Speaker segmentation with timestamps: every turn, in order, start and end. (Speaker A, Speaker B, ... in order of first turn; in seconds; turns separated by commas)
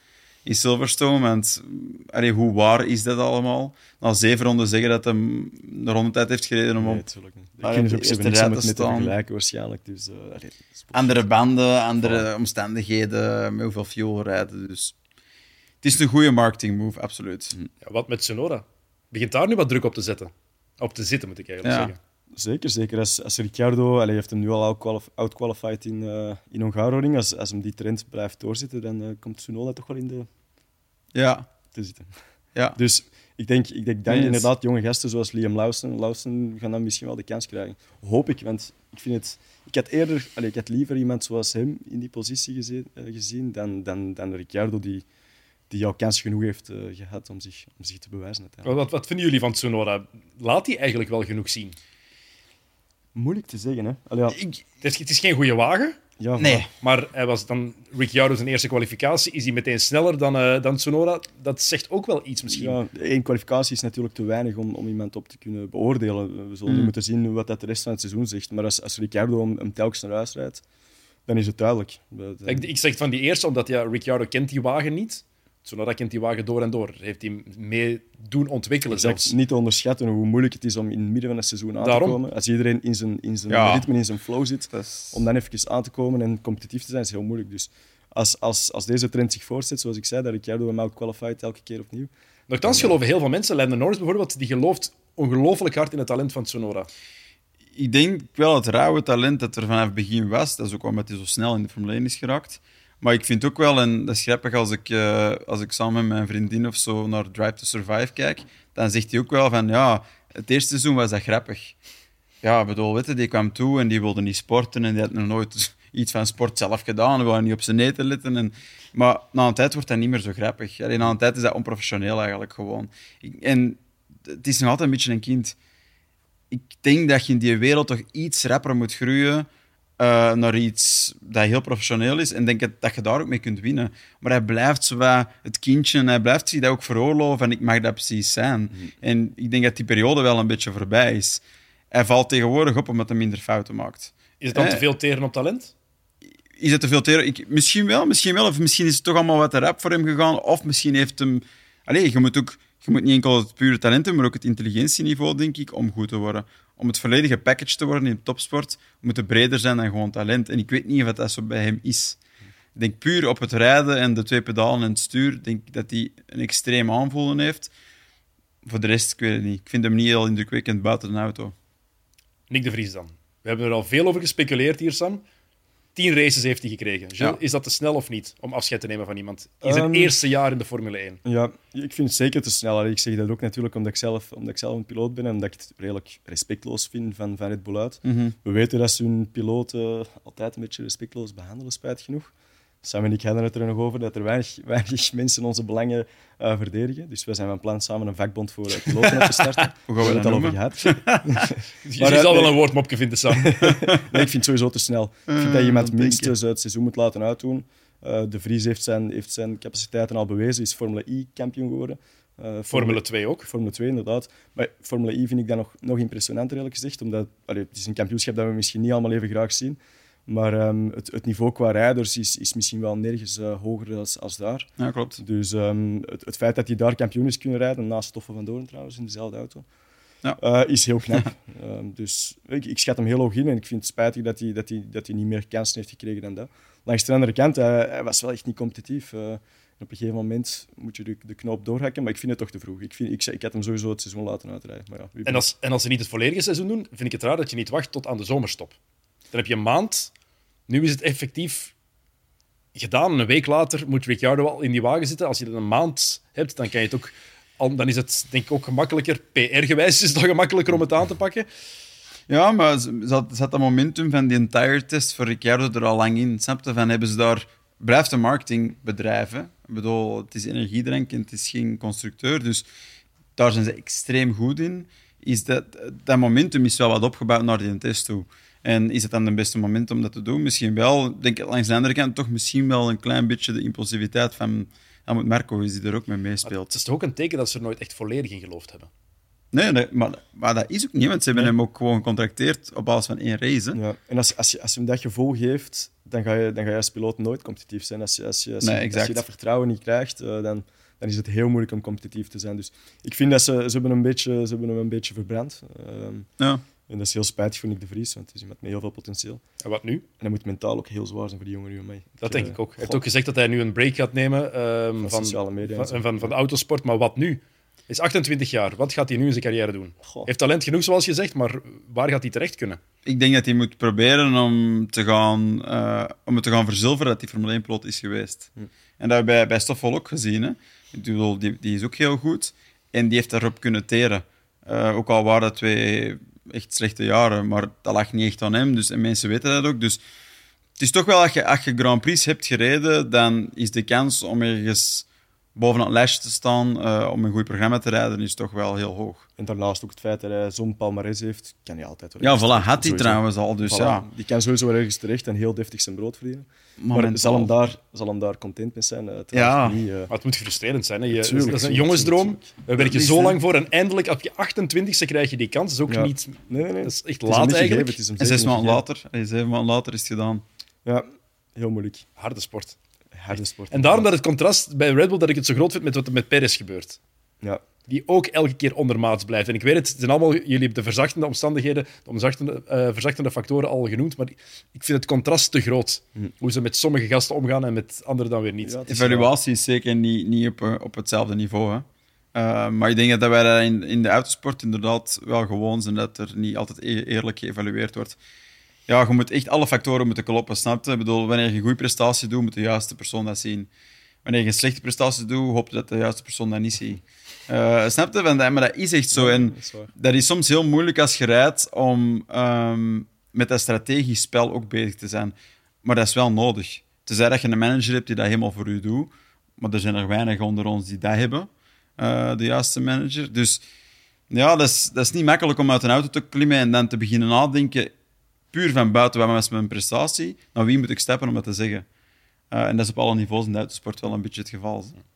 Speaker A: 0.5-7.0, Speaker B: 6.8-11.3, Speaker A: 7.6-9.1, Speaker A: 10.9-14.9, Speaker B: 12.0-12.3, Speaker A: 15.8-17.6, Speaker C: 17.8-22.0, Speaker A: 21.6-21.9, Speaker B: 22.4-30.3, Speaker A: 31.1-31.5, Speaker B: 31.7-32.1, Speaker B: 32.8-45.0, Speaker A: 34.1-34.5, Speaker B: 45.7-48.7, Speaker C: 48.6-51.8, Speaker B: 53.1-54.4, Speaker A: 54.4-54.6, Speaker C: 54.8-56.0, Speaker B: 56.2-56.6, Speaker A: 56.4-56.7, Speaker C: 56.8-62.8, Speaker B: 62.5-70.6, Speaker A: 66.7-66.9, Speaker B: 71.3-72.7, Speaker C: 72.5-79.3, Speaker B: 78.9-92.1, Speaker C: 81.8-82.2, Speaker A: 83.5-83.9, Speaker A: 84.7-85.2, Speaker C: 92.5-96.9, Speaker B: 92.6-92.9, Speaker A: 97.8-111.7, Speaker A: 112.4-125.6, Speaker A: 126.5-129.5, Speaker A: 130.0-144.8, Speaker C: 144.4-145.7, Speaker A: 146.6-162.2, Speaker A: 162.8-167.7, Speaker A: 168.7-171.5, Speaker C: 172.5-175.2, Speaker C: 175.9-181.2, Speaker B: 179.6-180.2, Speaker B: 181.2-192.3, Speaker A: 188.1-188.3, Speaker B: 192.8-202.6, Speaker A: 199.9-201.3, Speaker C: 201.8-203.6, Speaker B: 203.3-229.7, Speaker A: 205.3-206.3, Speaker C: 212.7-213.5, Speaker A: 224.8-225.2, Speaker B: 230.4-245.5, Speaker C: 245.3-248.8, Speaker C: 249.3-250.1, Speaker C: 250.7-251.7, Speaker C: 252.8-261.5, Speaker A: 262.3-272.6, Speaker A: 273.4-286.7, Speaker C: 286.5-288.9, Speaker A: 289.5-293.8, Speaker B: 293.7-306.3, Speaker A: 298.6-299.2, Speaker B: 306.9-309.4, Speaker C: 309.6-310.0, Speaker B: 310.2-313.0, Speaker C: 312.2-322.8, Speaker B: 315.0-316.3, Speaker A: 323.1-340.0, Speaker A: 340.8-349.3, Speaker B: 349.4-360.1, Speaker A: 352.2-354.1, Speaker A: 356.8-357.5, Speaker A: 359.3-359.8, Speaker C: 360.1-368.0, Speaker B: 361.1-362.6, Speaker A: 362.8-363.4, Speaker B: 365.9-368.8, Speaker A: 368.2-370.4, Speaker B: 370.9-372.1, Speaker C: 372.2-372.8, Speaker B: 373.1-374.1, Speaker C: 373.7-377.0, Speaker C: 377.9-388.9, Speaker B: 388.6-389.3, Speaker A: 388.9-398.2, Speaker A: 398.9-403.7, Speaker A: 404.2-423.6, Speaker B: 409.1-409.9, Speaker A: 424.3-427.9, Speaker A: 428.5-431.9, Speaker A: 432.5-435.0